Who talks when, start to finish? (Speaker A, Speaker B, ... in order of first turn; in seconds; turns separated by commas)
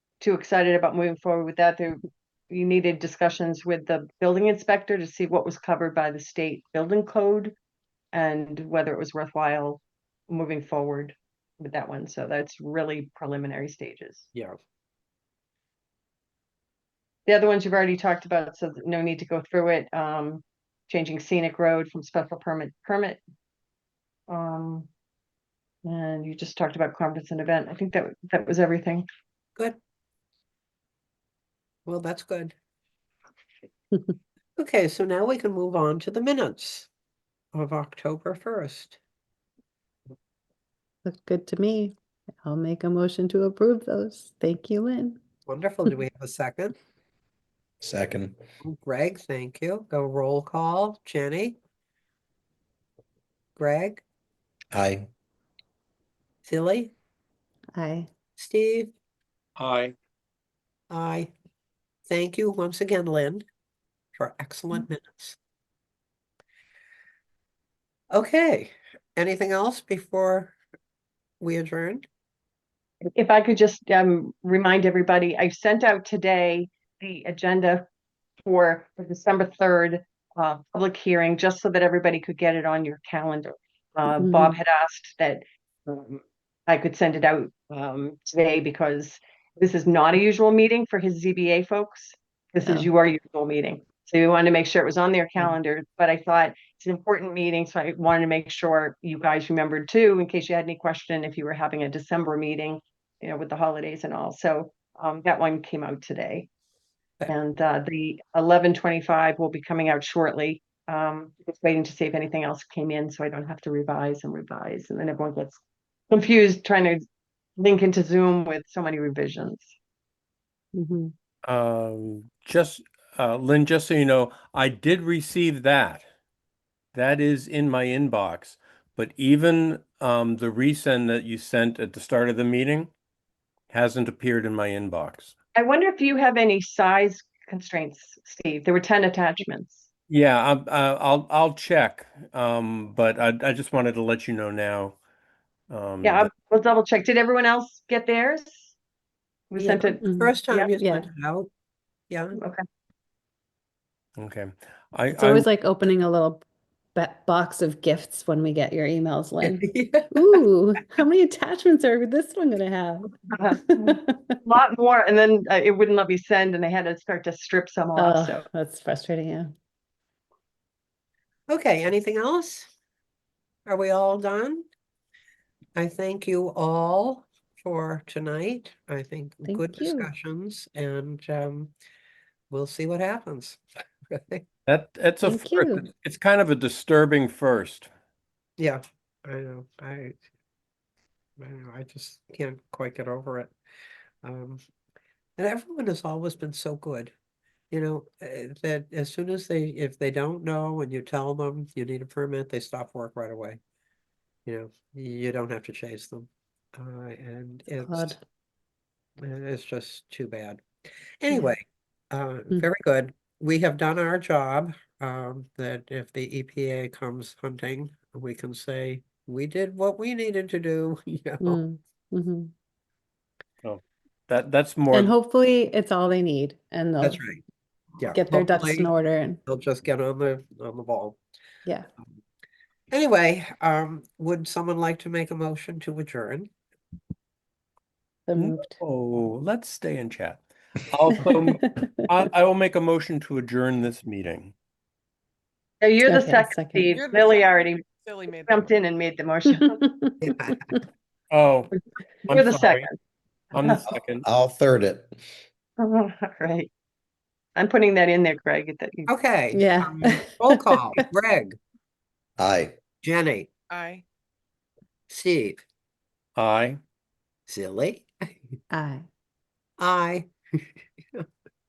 Speaker A: 0.2-7.5, Speaker A: 8.1-14.3, Speaker A: 17.2-23.2, Speaker A: 24.3-24.9, Speaker A: 25.8-29.1, Speaker B: 31.9-32.5, Speaker B: 34.6-36.9, Speaker B: 37.5-39.0, Speaker C: 41.0-45.2, Speaker B: 45.5-46.8, Speaker D: 47.8-48.4, Speaker B: 48.6-51.6, Speaker B: 53.6-54.0, Speaker D: 54.7-55.1, Speaker B: 56.4-56.9, Speaker C: 57.7-58.1, Speaker B: 58.4-58.9, Speaker E: 59.6-59.9, Speaker B: 60.9-61.3, Speaker B: 62.1-63.5, Speaker B: 64.2-65.4, Speaker B: 68.1-70.5, Speaker B: 71.4-72.1, Speaker A: 73.1-77.8, Speaker A: 78.4-106.5, Speaker C: 84.1-84.6, Speaker A: 107.3-117.0, Speaker A: 117.6-119.8, Speaker C: 120.7-121.1, Speaker E: 121.4-126.0, Speaker E: 126.9-132.9, Speaker E: 133.7-135.3, Speaker A: 135.5-139.9, Speaker E: 140.1-145.0, Speaker E: 145.7-146.3, Speaker A: 146.0-148.7, Speaker A: 149.5-150.7, Speaker B: 149.6-151.5, Speaker C: 150.0-151.1, Speaker B: 152.1-152.4, Speaker A: 152.4-152.6, Speaker E: 154.2-155.5, Speaker C: 155.1-164.4, Speaker B: 159.4-160.3, Speaker A: 163.3-168.4, Speaker C: 167.9-169.5, Speaker B: 171.5-172.7, Speaker B: 173.7-174.6, Speaker B: 175.8-181.7, Speaker C: 179.4-180.1, Speaker B: 182.5-184.4, Speaker E: 184.7-187.9, Speaker C: 185.2-185.9, Speaker B: 188.6-190.2, Speaker B: 191.4-193.5, Speaker B: 194.2-194.6, Speaker B: 195.4-197.1, Speaker B: 197.7-203.6, Speaker B: 204.4-208.2, Speaker C: 207.8-208.2, Speaker B: 209.2-210.6, Speaker B: 211.2-221.6, Speaker C: 221.4-222.5, Speaker E: 223.6-225.1, Speaker C: 224.9-227.2, Speaker B: 227.0-227.4, Speaker B: 228.0-228.9, Speaker C: 228.1-229.4, Speaker B: 229.4-231.2, Speaker B: 232.9-236.5, Speaker C: 238.3-238.8, Speaker E: 238.3-244.5, Speaker C: 241.6-241.9, Speaker A: 245.8-247.8, Speaker C: 246.0-246.9, Speaker F: 246.9-248.7, Speaker A: 248.3-249.8, Speaker C: 249.5-250.8, Speaker B: 250.2-250.7, Speaker E: 251.3-251.7, Speaker A: 252.2-252.9, Speaker E: 252.3-252.9, Speaker E: 253.5-254.2, Speaker D: 253.9-255.1, Speaker A: 255.8-256.7, Speaker A: 257.6-259.1, Speaker B: 259.1-261.6, Speaker C: 259.5-261.0, Speaker D: 262.4-262.8, Speaker B: 263.0-263.5, Speaker F: 263.8-264.0, Speaker B: 265.1-265.6, Speaker E: 266.4-266.8, Speaker B: 267.5-268.4, Speaker C: 268.7-269.1, Speaker B: 269.8-271.2